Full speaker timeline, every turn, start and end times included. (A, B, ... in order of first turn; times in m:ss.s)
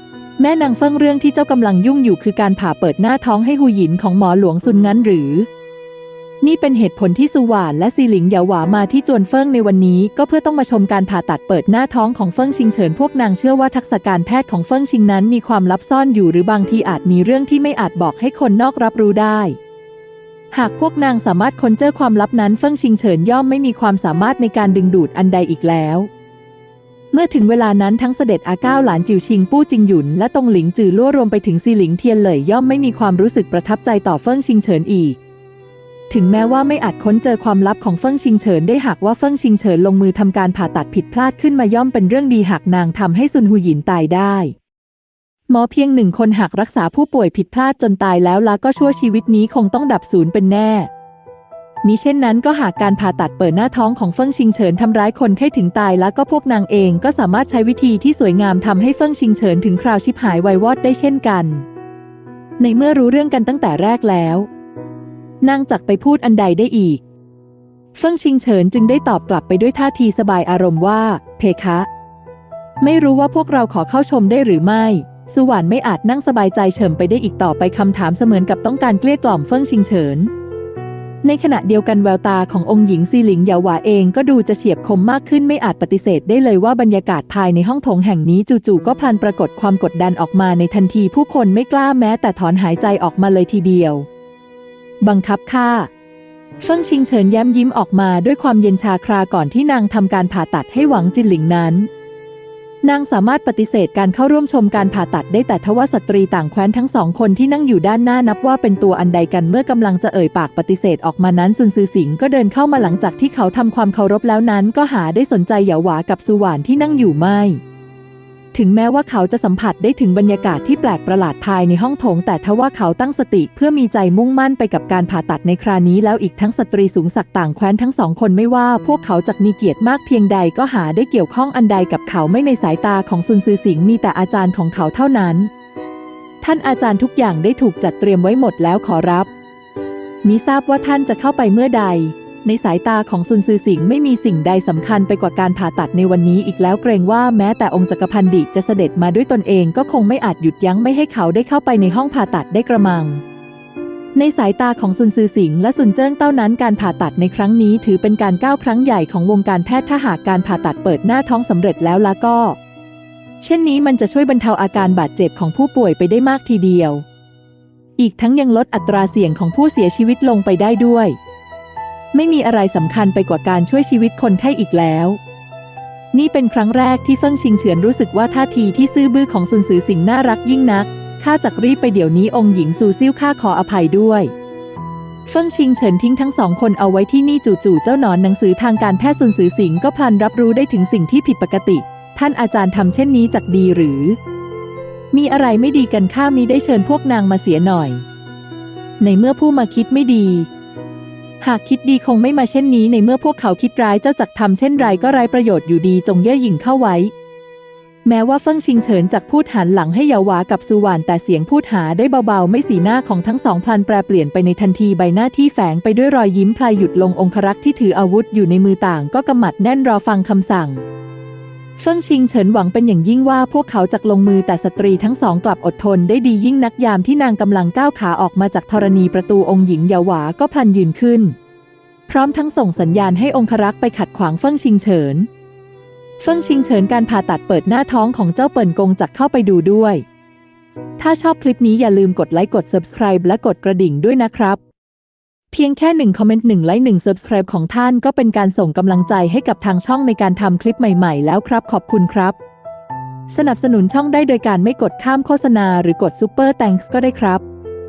0:00.4-0:05.5 A
0:06.4-0:19.6 A
0:20.5-0:26.1 A
0:27.1-0:35.2 A
0:36.1-0:44.6 A
0:45.5-0:50.9 A
0:51.8-1:01.7 A
1:02.6-1:04.5 A
1:05.4-1:07.0 A
1:07.9-1:11.9 A
1:12.8-1:20.3 A
1:21.2-1:34.1 A
1:35.0-1:35.9 A
1:36.6-1:41.9 A
1:42.8-1:57.6 A
1:58.5-2:15.5 A
2:16.4-2:19.3 A
2:20.2-2:33.2 A
2:34.1-2:42.6 A
2:43.4-2:47.0 A
2:48.0-2:51.2 A
2:52.1-2:55.2 A
2:56.1-3:04.3 A
3:05.3-3:14.2 A
3:15.1-3:18.0 A
3:19.0-3:20.5 A
3:21.4-3:27.1 A
3:28.0-3:40.8 A
3:41.8-3:51.4 A
3:52.1-3:55.3 A
3:56.2-4:00.0 A
4:01.0-4:04.6 A
4:05.5-4:12.4 A
4:13.3-4:17.4 A